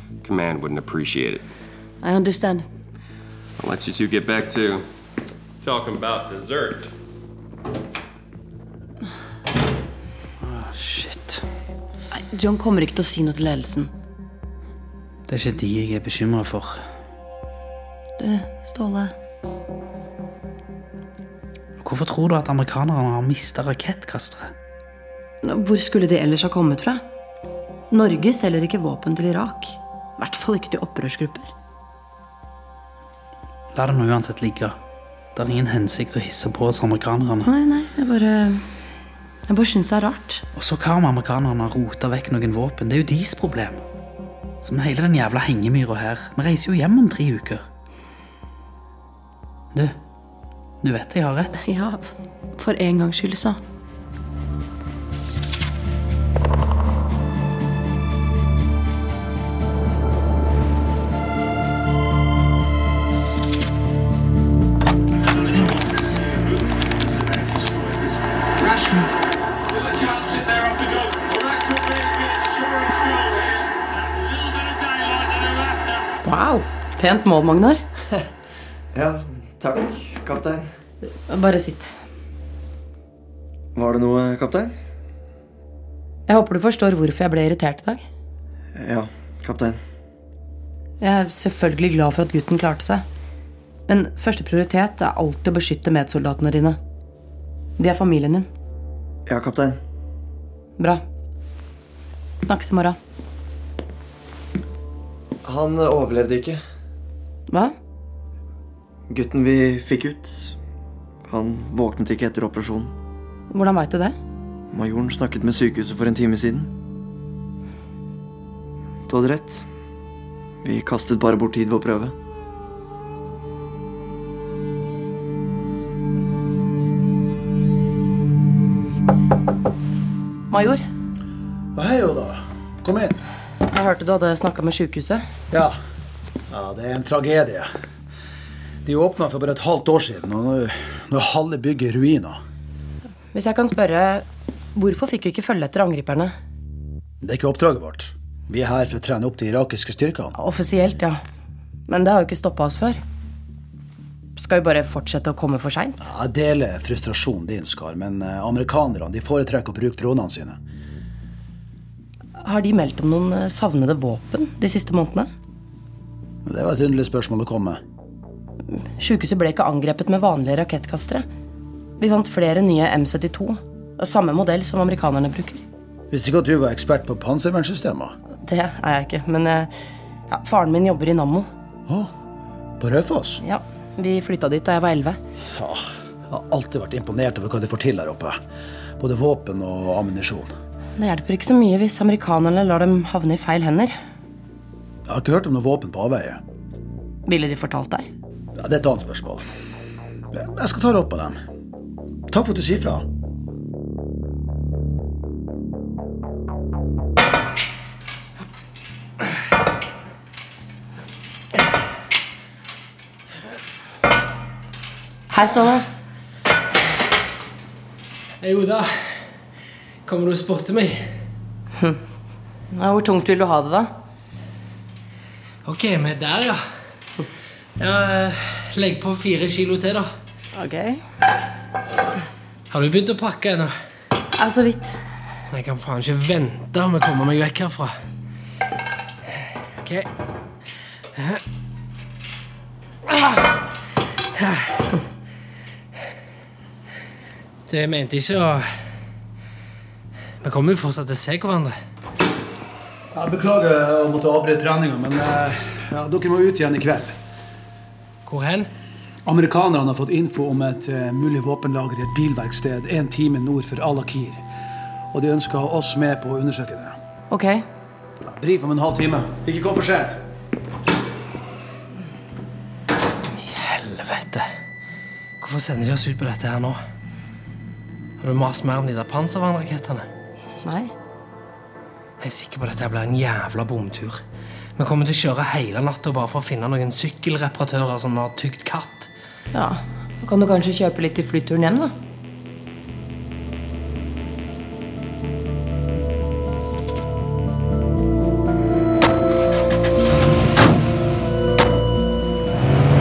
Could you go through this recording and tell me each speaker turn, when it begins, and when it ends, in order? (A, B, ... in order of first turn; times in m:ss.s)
0:00.2-0:01.4 A
0:02.0-0:02.7 B
0:03.6-0:04.8 A
0:05.6-0:06.9 A
0:10.4-0:11.4 C
0:12.1-0:13.9 B
0:15.3-0:16.8 C
0:18.2-0:19.1 B
0:21.8-0:24.5 C
0:25.4-0:27.0 B
0:27.9-0:31.5 B
0:33.7-0:34.7 C
0:35.3-0:37.5 C
0:37.4-0:38.6 B
0:39.5-0:40.4 B
0:40.5-0:43.8 C
0:44.6-0:47.6 C
0:50.8-0:51.6 C
0:51.6-0:53.6 B
1:16.2-1:17.8 B
1:18.9-1:20.7 D
1:21.3-1:22.0 B
1:23.7-1:24.8 D
1:26.3-1:28.0 B
1:28.8-1:29.8 D
1:31.0-1:33.0 B
1:33.9-1:36.8 B
1:37.8-1:38.5 B
1:39.2-1:39.8 D
1:40.8-1:41.0 B
1:42.4-1:43.0 B
1:45.4-1:46.6 D
1:47.5-1:47.7 B
1:49.1-1:50.6 D
1:51.3-1:52.9 D
1:53.5-1:54.2 B
1:54.7-1:56.7 D
1:59.1-1:59.7 D
2:00.6-2:02.1 D
2:10.5-2:10.8 B
2:11.7-2:13.2 E
2:13.7-2:15.2 B
2:15.5-2:15.8 E
2:16.5-2:17.7 E
2:18.8-2:22.4 E
2:23.3-2:26.3 B
2:27.2-2:30.3 E
2:30.4-2:31.2 B
2:31.9-2:33.0 B
2:34.4-2:36.1 B
2:36.0-2:40.6 E
2:42.4-2:45.3 B
2:46.4-2:47.8 E
2:48.7-2:51.2 B
2:52.0-2:55.6 B
2:56.1-2:58.1 E
2:58.4-2:59.7 B
3:00.3-3:01.5 B
3:02.8-3:03.4 E
3:03.4-3:05.2 B
3:05.5-3:08.4 E
3:09.0-3:10.5 E
3:11.0-3:14.0 B
3:15.0-3:16.4 E
3:17.2-3:18.1 B
3:18.6-3:19.4 E
3:20.3-3:21.4 E
3:22.3-3:23.0 E
3:35.3-3:35.8 B
3:38.4-3:39.1 F
3:40.0-3:41.1 F
3:42.7-3:43.9 B
3:45.6-3:46.6 F
3:47.8-3:50.1 F
3:50.6-3:51.0 B
3:52.7-3:53.7 F
3:54.4-3:55.0 B
3:55.5-3:57.9 F
3:59.4-4:00.1 F
4:01.1-4:01.4 F
4:03.1-4:03.6 F
4:04.3-4:04.9 F
4:07.7-4:08.7 F
4:10.4-4:11.7 F
4:13.1-4:17.2 E
4:18.2-4:18.7 F
4:19.2-4:24.4 E
4:25.1-4:27.0 E
4:27.3-4:27.6 B
4:28.2-4:30.2 E
4:33.4-4:34.5 F
4:35.4-4:36.8 F
4:38.2-4:40.1 F
4:40.6-4:40.9 B
4:42.2-4:44.2 F
4:44.8-4:49.1 F
4:49.5-4:51.9 B